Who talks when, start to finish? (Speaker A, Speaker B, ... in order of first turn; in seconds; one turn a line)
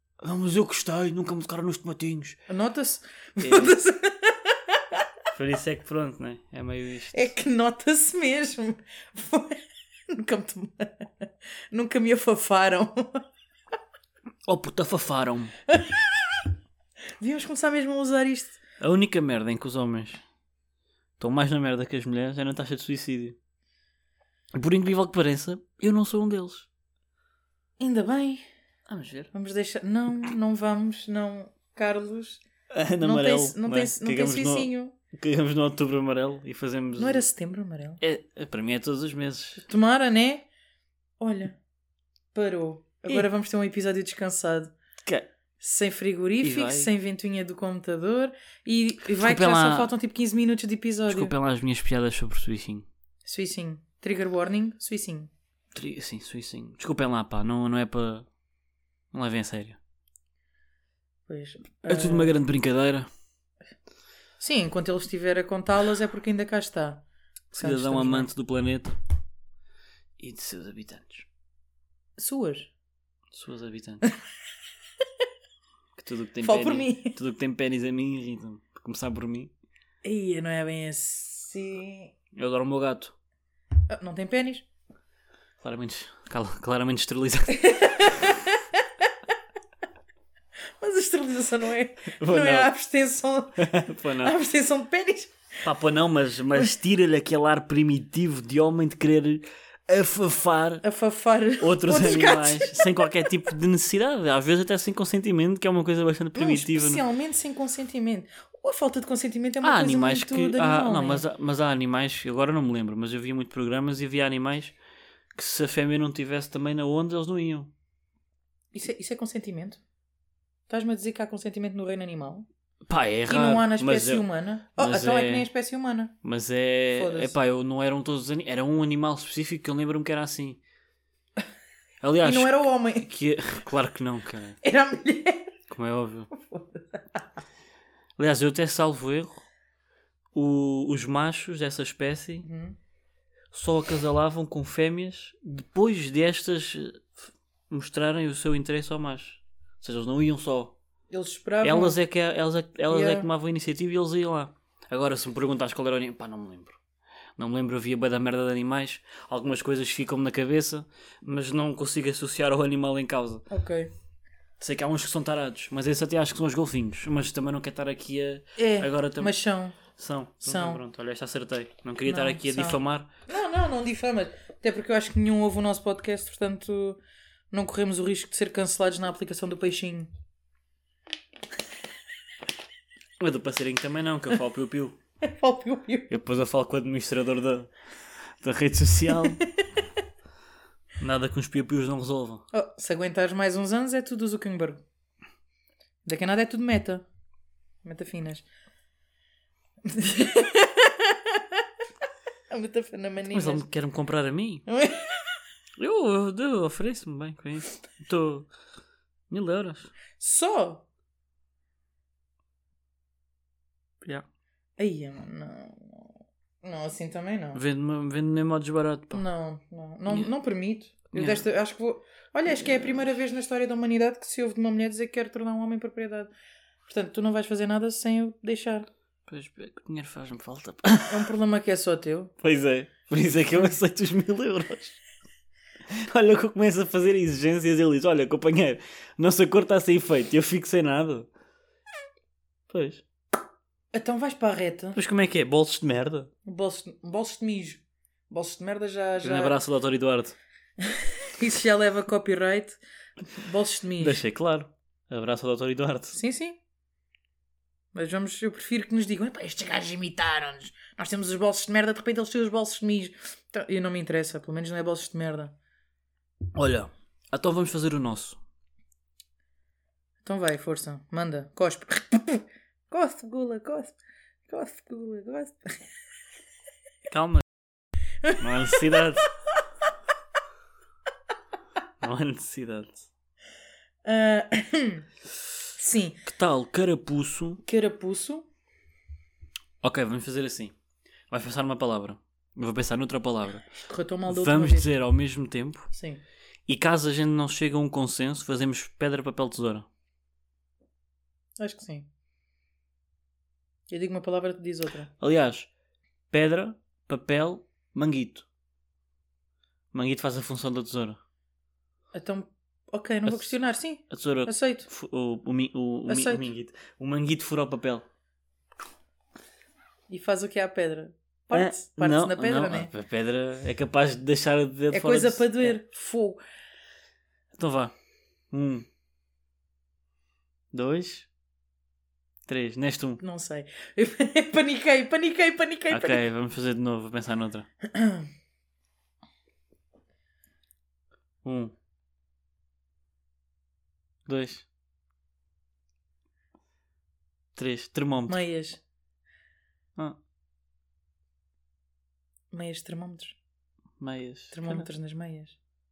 Speaker A: 0.2-2.4
Speaker B: 2.5-5.0
Speaker A: 3.4-3.8
Speaker A: 5.3-7.3
Speaker B: 7.1-13.2
Speaker A: 14.5-15.5
Speaker B: 15.7-16.4
Speaker B: 17.2-18.6
Speaker A: 18.8-20.2
Speaker A: 21.2-23.4
Speaker A: 24.5-26.7
Speaker B: 27.8-28.4
Speaker A: 28.9-29.3
Speaker B: 29.3-32.4
Speaker A: 32.7-37.2
Speaker B: 33.0-34.9
Speaker B: 37.0-38.0
Speaker A: 38.0-39.6
Speaker B: 39.7-40.5
Speaker B: 41.2-41.6
Speaker B: 42.3-44.7
Speaker B: 45.6-51.3
Speaker A: 46.4-46.9
Speaker A: 49.1-49.9
Speaker A: 51.1-52.9
Speaker B: 53.2-55.3
Speaker A: 55.7-58.3
Speaker A: 59.1-59.8
Speaker B: 61.3-62.4
Speaker A: 61.9-63.1
Speaker B: 64.4-67.0
Speaker A: 67.5-69.0
Speaker B: 67.5-68.3
Speaker A: 70.2-71.3
Speaker B: 72.2-72.7
Speaker A: 73.3-74.0
Speaker A: 75.9-79.5
Speaker B: 76.4-77.2
Speaker B: 80.0-82.1
Speaker A: 82.3-83.1
Speaker B: 83.9-84.7
Speaker A: 85.6-88.1
Speaker B: 87.5-89.1
Speaker B: 90.8-95.4
Speaker A: 92.1-92.7
Speaker A: 93.6-94.3
Speaker A: 95.6-100.8
Speaker B: 100.8-103.1
Speaker A: 101.6-107.0
Speaker B: 106.3-111.2
Speaker A: 109.6-114.7
Speaker A: 115.3-117.7
Speaker B: 118.7-119.8
Speaker B: 120.7-122.5
Speaker A: 122.9-125.5
Speaker B: 123.3-126.1
Speaker A: 126.2-130.6
Speaker B: 126.9-127.3
Speaker A: 132.0-134.6
Speaker B: 132.2-133.1
Speaker B: 134.6-135.5
Speaker A: 135.7-136.3
Speaker B: 136.3-137.2
Speaker A: 138.2-139.4
Speaker A: 140.3-142.4
Speaker B: 142.4-142.8
Speaker A: 143.5-150.7
Speaker B: 151.1-152.0
Speaker A: 151.6-156.8
Speaker B: 152.9-153.3
Speaker A: 157.4-163.4
Speaker B: 163.5-163.9
Speaker A: 164.6-173.1
Speaker B: 168.6-169.8
Speaker B: 170.4-170.8
Speaker B: 172.1-177.0
Speaker B: 177.5-180.1
Speaker A: 183.2-185.0
Speaker B: 185.2-186.1
Speaker A: 186.1-187.7
Speaker A: 188.4-189.4
Speaker A: 191.0-192.5
Speaker B: 192.5-194.8
Speaker B: 196.0-197.1
Speaker B: 197.8-198.4
Speaker B: 199.8-201.6
Speaker B: 202.5-203.6
Speaker A: 203.3-204.6
Speaker B: 204.7-205.2
Speaker A: 205.8-208.5
Speaker A: 209.3-209.9
Speaker B: 210.2-210.8
Speaker B: 214.8-216.1
Speaker B: 216.6-217.6
Speaker A: 217.5-219.2
Speaker B: 219.1-226.3
Speaker A: 221.1-221.5
Speaker B: 226.9-228.9
Speaker A: 229.2-231.3
Speaker B: 231.1-232.3
Speaker A: 232.4-235.0
Speaker A: 235.9-241.3
Speaker A: 242.7-243.0
Speaker B: 243.9-245.0
Speaker A: 244.9-246.3
Speaker B: 246.4-249.6
Speaker A: 249.2-250.4
Speaker B: 250.8-254.2
Speaker A: 254.0-256.2
Speaker B: 256.1-256.6
Speaker B: 257.9-265.5
Speaker A: 266.5-268.4
Speaker B: 270.2-273.9
Speaker B: 274.5-275.7
Speaker A: 277.1-277.4
Speaker B: 278.2-279.0
Speaker A: 278.4-279.3
Speaker A: 282.0-283.0
Speaker B: 284.0-285.1
Speaker B: 285.7-286.2
Speaker A: 286.2-287.6
Speaker B: 287.6-288.5
Speaker A: 289.8-290.7
Speaker A: 291.3-293.7
Speaker B: 293.8-294.9
Speaker A: 294.3-295.9
Speaker B: 295.9-296.2
Speaker A: 296.6-299.9
Speaker B: 301.6-302.1
Speaker B: 303.9-305.1
Speaker A: 305.2-305.7
Speaker A: 306.3-308.4
Speaker A: 309.9-311.2
Speaker B: 312.1-314.9
Speaker A: 313.2-318.0
Speaker B: 316.1-316.5
Speaker B: 320.1-322.9
Speaker A: 321.5-325.8
Speaker B: 324.9-326.4
Speaker A: 327.5-327.9
Speaker A: 328.5-328.9
Speaker A: 330.7-331.3
Speaker A: 332.4-333.2
Speaker B: 333.2-336.2
Speaker A: 335.9-337.7
Speaker B: 337.8-338.3
Speaker A: 341.4-341.7
Speaker A: 344.2-344.6
Speaker A: 347.5-348.4
Speaker B: 348.3-348.8
Speaker B: 352.5-353.4
Speaker A: 354.0-354.9
Speaker B: 354.5-355.6